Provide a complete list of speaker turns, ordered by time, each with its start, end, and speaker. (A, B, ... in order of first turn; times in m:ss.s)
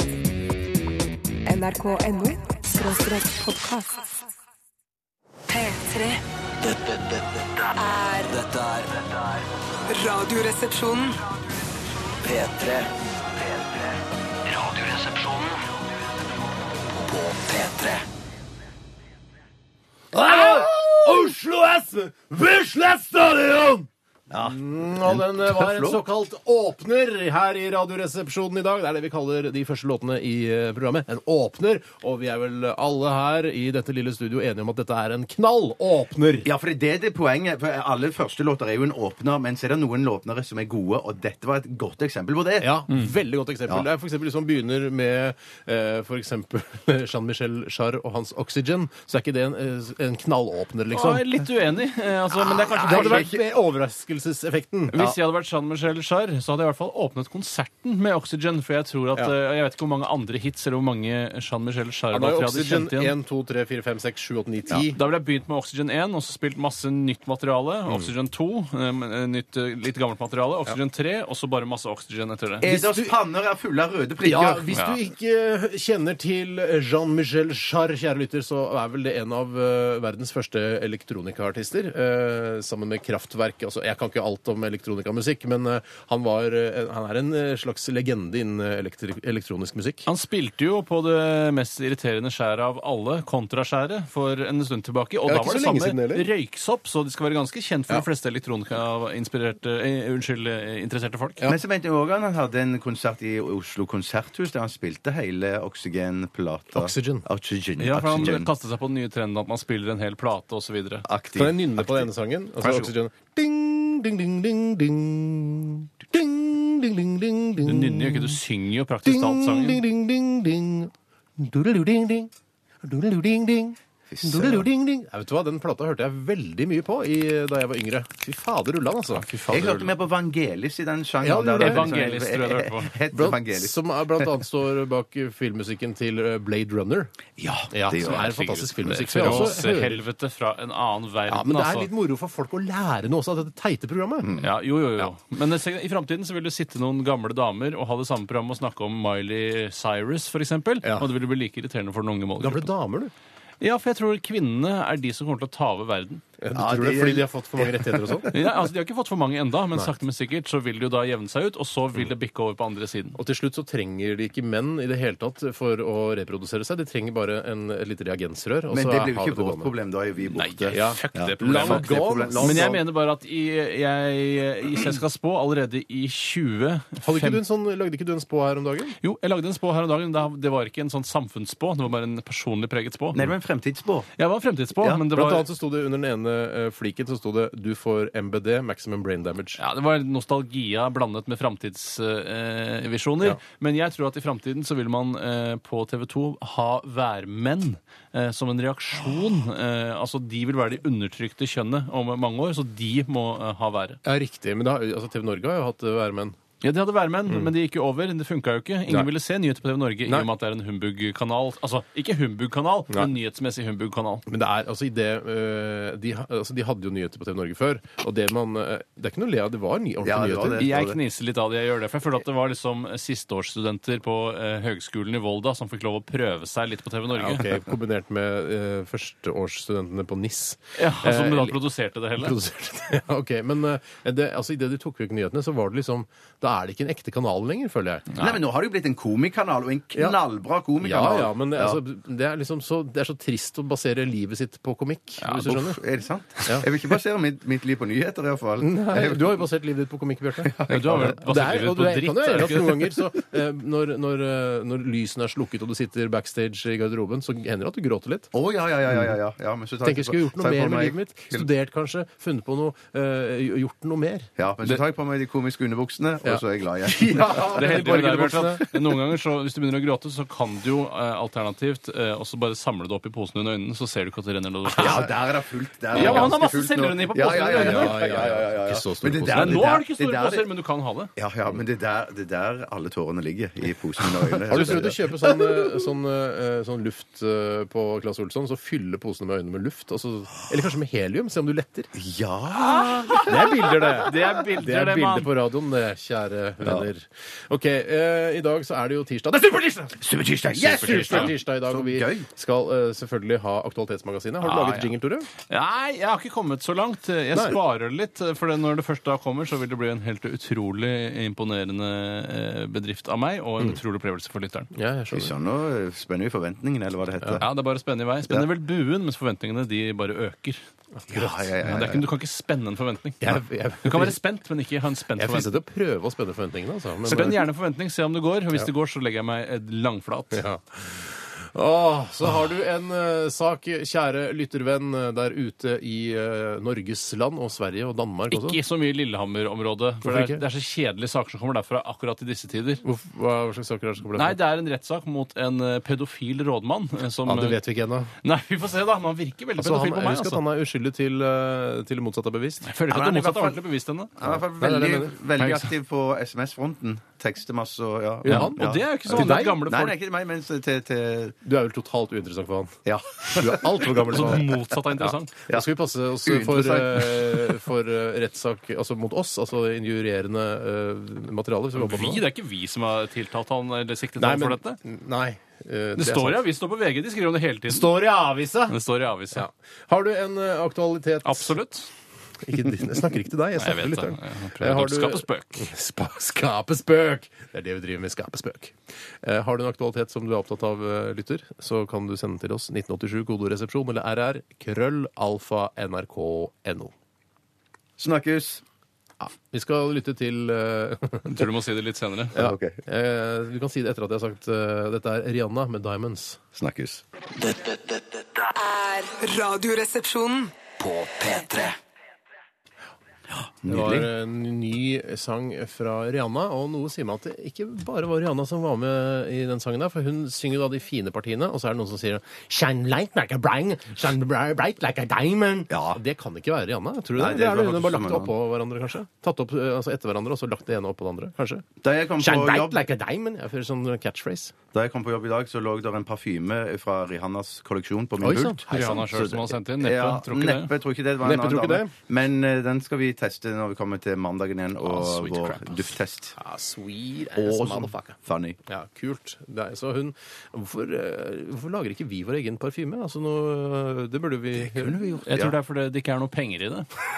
0:01.4-0:04.1 A
0:05.5-0:06.2 A
0:06.6-0:07.4 B
0:07.8-0:08.3 A
0:08.3-0:09.2 B
0:09.9-0:11.2 A
0:12.2-0:12.9 B
0:14.5-0:15.5 B
0:17.0-0:18.0 B
0:20.1-0:36.5 C
0:20.2-0:21.0 D
0:24.3-0:26.0 D
0:36.4-0:42.8 D
0:42.6-0:51.4 C
0:50.9-0:53.2 E
0:52.3-0:53.4 D
0:52.7-0:55.0 C
0:54.9-1:03.1 E
1:02.1-1:05.0 C
1:04.7-1:12.6 E
1:12.6-1:14.6 D
1:12.6-1:13.1 C
1:14.2-1:30.1 C
1:14.7-1:15.0 E
1:30.0-1:41.4 E
1:35.2-1:36.3 C
1:41.4-1:48.5 D
1:46.7-1:47.2 C
1:47.8-1:51.0 E
1:51.0-1:52.0 D
1:51.3-1:58.4 C
1:52.6-1:52.9 E
1:57.6-1:59.8 E
1:59.0-2:02.3 C
2:02.8-2:09.2 C
2:04.1-2:04.6 D
2:09.1-2:10.0 E
2:09.5-2:13.8 D
2:11.2-2:12.1 C
2:11.6-2:13.0 E
2:13.1-2:17.1 C
2:17.4-2:19.6 D
2:17.7-2:20.0 C
2:17.9-2:21.9 E
2:21.3-2:24.4 C
2:24.2-2:24.5 D
2:24.4-2:32.7 E
2:30.8-2:31.1 C
2:32.4-2:33.1 C
2:33.6-2:36.2 E
2:36.4-2:38.3 C
2:36.5-2:38.4 D
2:38.3-2:43.2 E
2:43.1-2:49.7 C
2:48.7-2:52.8 D
2:50.4-2:51.9 E
2:50.7-2:52.8 C
2:52.4-2:57.4 E
2:57.0-2:59.0 C
2:59.0-3:03.2 E
3:03.1-3:04.1 D
3:04.2-3:05.4 E
3:05.0-3:09.6 C
3:09.6-3:24.0 E
3:24.0-3:26.4 C
3:26.6-3:34.2 E
3:34.3-3:40.8 C
3:40.0-3:41.0 D
3:40.6-3:47.6 E
3:47.2-3:51.6 C
3:50.8-3:52.4 E
3:52.2-3:58.2 C
3:58.2-4:01.8 D
4:00.8-4:05.8 C
4:05.2-4:05.4 E
4:05.4-4:09.4 D
4:08.6-4:18.3 C
4:10.4-4:11.1 D
4:10.7-4:13.0 E
4:18.3-4:21.5 D
4:18.9-4:19.1 C
4:19.8-4:24.3 C
4:24.4-4:27.8 D
4:26.2-4:29.0 C
4:27.5-4:35.1 E
4:34.6-4:35.2 C
4:34.8-4:40.5 D
4:35.9-4:36.4 C
4:35.9-4:38.0 E
4:37.2-4:39.8 C
4:39.3-4:41.1 E
4:41.2-4:45.6 D
4:44.5-4:51.9 C
4:51.9-4:54.1 D
4:52.6-4:55.3 E
4:53.2-5:05.3 C
4:56.6-4:56.9 D
5:00.0-5:02.3 D
5:00.9-5:01.3 E
5:04.4-5:14.7 E
5:14.7-5:15.3 C
5:15.1-5:17.5 D
5:17.4-5:20.6 E
5:21.0-5:21.4 C
5:21.1-5:22.0 D
5:21.6-5:25.5 E
5:23.2-5:24.2 C
5:25.2-5:27.4 C
5:27.0-5:30.4 E
5:30.3-5:38.6 C
5:38.3-5:42.8 E
5:40.0-5:40.4 C
5:42.8-5:44.4 C
5:44.2-5:47.6 E
5:47.2-5:48.1 C
5:48.2-5:50.4 E
5:49.6-5:52.7 C
5:52.6-5:54.2 E
5:52.9-5:53.6 D
5:54.2-6:01.4 D
5:54.2-5:55.2 C
5:55.4-5:55.6 E
5:58.2-5:59.7 C
5:58.2-5:59.9 E
6:01.4-6:12.2 C
6:02.8-6:04.4 D
6:04.0-6:05.4 E
6:06.2-6:07.6 D
6:11.7-6:14.8 E
6:14.2-6:16.4 C
6:16.0-6:17.9 E
6:17.7-6:18.8 C
6:18.7-6:19.4 E
6:19.3-6:21.6 C
6:21.2-6:21.9 E
6:22.4-6:36.9 C
6:23.6-6:25.7 E
6:38.0-6:38.6 D
6:39.2-6:41.5 C
6:41.2-6:42.4 E
6:42.3-6:42.8 D
6:42.3-6:46.4 C
6:46.6-6:47.0 D
6:47.4-6:48.2 B
6:48.4-6:50.5 A
6:50.8-6:51.8 B
6:53.6-6:54.1 D
6:53.7-7:11.6 C
7:05.7-7:06.0 D
7:07.2-7:08.3 D
7:11.8-7:12.8 D
7:12.2-7:14.5 C
7:14.7-7:26.3 D
7:18.2-7:19.4 C
7:18.7-7:20.7 E
7:21.2-7:21.9 C
7:24.9-7:25.9 E
7:26.4-7:35.0 C
7:27.4-7:28.6 D
7:34.6-7:35.5 D
7:35.2-7:36.9 E